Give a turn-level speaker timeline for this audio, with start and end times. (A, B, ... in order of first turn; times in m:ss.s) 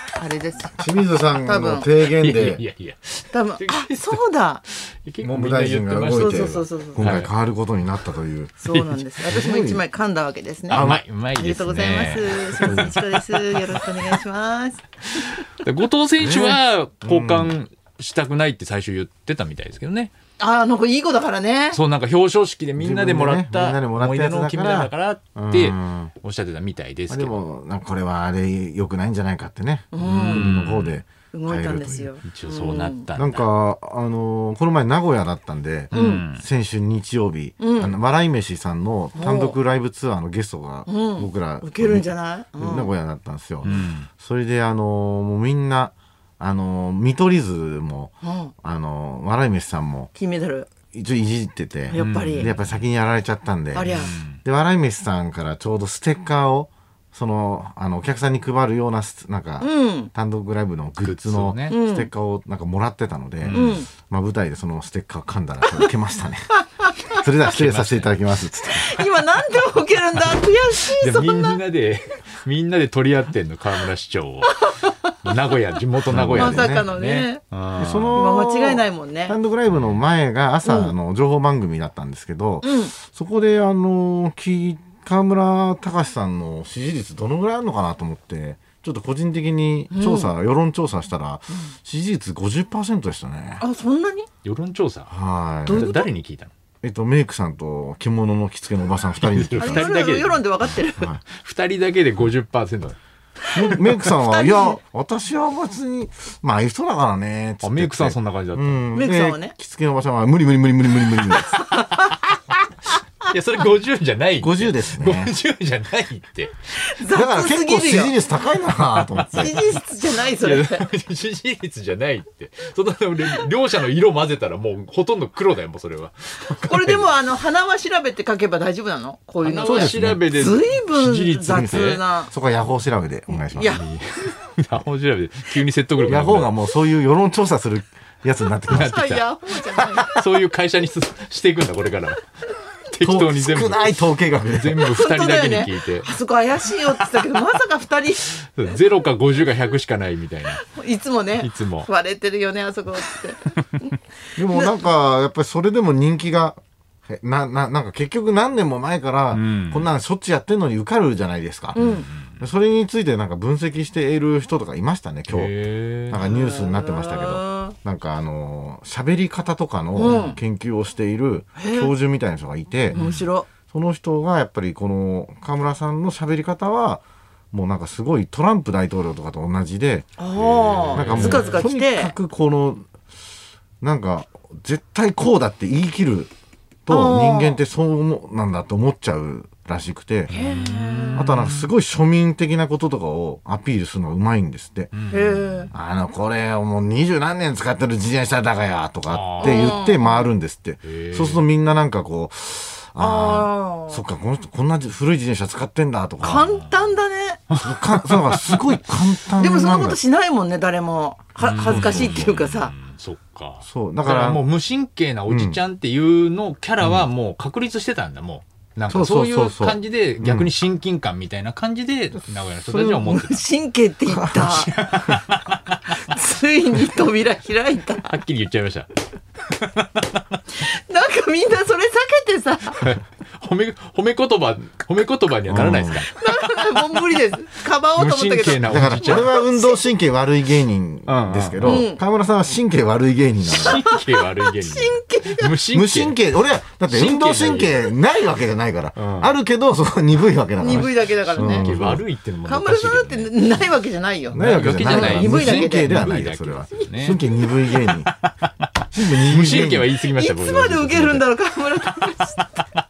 0:00.1-0:00.8 A
0:00.8-0:02.6 B
0:01.4-0:01.9 A
0:02.0-0:07.3 C
0:03.3-0:04.6 A
0:05.2-0:08.6 B
0:06.1-0:07.1 A
0:08.6-0:15.2 A
0:08.7-0:09.1 C
0:09.2-0:09.8 B
0:10.7-0:14.2 C
0:10.7-0:11.0 B
0:15.1-0:20.1 C
0:16.2-0:17.5 B
0:20.4-0:21.8 A
0:21.7-0:27.4 C
0:22.8-0:26.1 B
0:27.1-0:32.1 B
0:29.9-0:30.5 A
0:30.0-0:31.0 C
0:31.3-0:33.1 A
0:32.2-0:33.5 C
0:33.1-0:50.1 B
0:35.9-0:36.4 C
0:35.9-0:36.2 A
0:37.6-0:37.9 A
0:39.1-0:39.6 A
0:40.9-0:42.9 A
0:43.6-0:44.1 C
0:48.2-0:48.5 A
0:50.1-0:50.7 A
0:50.9-1:06.5 B
0:51.9-0:52.5 A
0:52.0-0:52.8 C
0:53.7-0:54.1 A
0:53.9-0:54.4 C
0:59.6-1:00.1 A
1:01.0-1:01.8 C
1:01.7-1:02.1 A
1:03.4-1:03.8 C
1:03.5-1:03.9 A
1:06.8-1:07.2 A
1:07.1-1:09.0 B
1:07.5-1:08.2 C
1:08.6-1:11.6 A
1:10.7-1:18.2 C
1:16.1-1:16.9 B
1:16.3-1:17.4 A
1:17.8-1:33.6 B
1:18.1-1:19.4 A
1:19.7-1:20.0 C
1:20.6-1:21.0 A
1:22.6-1:22.9 A
1:29.9-1:30.3 A
1:33.6-1:34.3 A
1:34.4-1:36.5 C
1:35.1-1:35.9 B
1:35.6-1:36.1 A
1:36.8-1:39.9 B
1:39.2-1:40.4 C
1:39.6-1:41.1 A
1:41.2-1:43.0 C
1:43.5-1:51.6 B
1:43.6-1:44.8 A
1:47.6-1:48.9 C
1:48.9-1:49.5 A
1:51.3-1:52.2 A
1:53.2-1:56.5 C
1:54.4-1:55.3 B
1:56.7-1:58.3 A
1:57.1-1:59.6 B
1:59.1-2:07.1 C
1:59.3-2:00.8 A
2:06.6-2:12.3 A
2:09.4-2:12.0 C
2:09.6-2:10.4 B
2:11.4-2:13.8 B
2:13.3-2:13.8 A
2:13.7-2:16.6 C
2:16.0-2:19.0 B
2:18.7-2:22.2 C
2:18.7-2:20.2 A
2:22.9-2:26.1 C
2:23.0-2:24.9 B
2:24.8-2:28.3 A
2:28.4-2:30.7 C
2:30.6-2:33.9 A
2:31.4-2:31.9 C
2:34.4-2:45.5 B
2:39.3-2:39.9 C
2:41.8-2:42.4 C
2:41.8-2:42.0 A
2:45.3-2:46.2 C
2:46.1-2:53.0 B
2:46.2-2:47.7 A
2:49.9-2:50.4 A
2:50.0-2:50.4 C
2:51.6-2:51.9 A
2:52.9-2:53.2 C
2:52.9-2:53.5 A
2:53.7-3:00.2 B
3:00.2-3:02.1 A
3:00.3-3:01.6 C
3:00.9-3:02.8 B
3:03.8-3:06.3 B
3:06.8-3:10.3 B
3:06.9-3:07.6 A
3:10.3-3:11.7 C
3:10.3-3:11.2 A
3:11.1-3:14.9 B
3:14.9-3:15.7 C
3:15.1-3:15.7 A
3:15.7-3:26.5 B
3:19.1-3:19.8 C
3:19.4-3:20.3 A
3:20.8-3:21.4 C
3:23.0-3:24.0 A
3:26.2-3:27.4 A
3:26.2-3:26.9 C
3:27.5-3:28.6 C
3:27.6-3:30.0 B
3:29.4-3:32.7 A
3:31.4-3:43.4 C
3:31.7-3:32.2 B
3:33.6-3:34.4 B
3:35.3-3:35.6 B
3:36.8-3:37.1 B
3:38.9-3:40.5 B
3:42.7-3:44.7 A
3:44.1-3:44.5 B
3:44.4-3:45.8 C
3:46.0-3:48.1 A
3:47.9-3:48.9 C
3:49.5-3:50.1 C
3:50.5-3:52.9 A
3:52.8-3:57.0 C
3:55.5-3:56.0 B
3:56.1-3:59.8 A
3:57.9-3:59.4 C
3:58.6-4:03.8 B
4:01.1-4:01.9 C
4:01.6-4:02.0 A
4:03.5-4:06.2 C
4:03.7-4:05.5 A
4:05.7-4:12.0 B
4:06.9-4:07.9 C
4:09.0-4:09.3 C
4:10.6-4:11.7 A
4:10.7-4:13.3 C
4:12.4-4:16.1 A
4:14.3-4:17.2 C
4:14.3-4:18.1 B
4:17.8-4:18.5 C
4:18.9-4:19.9 B
4:19.2-4:21.3 C
4:20.1-4:22.6 A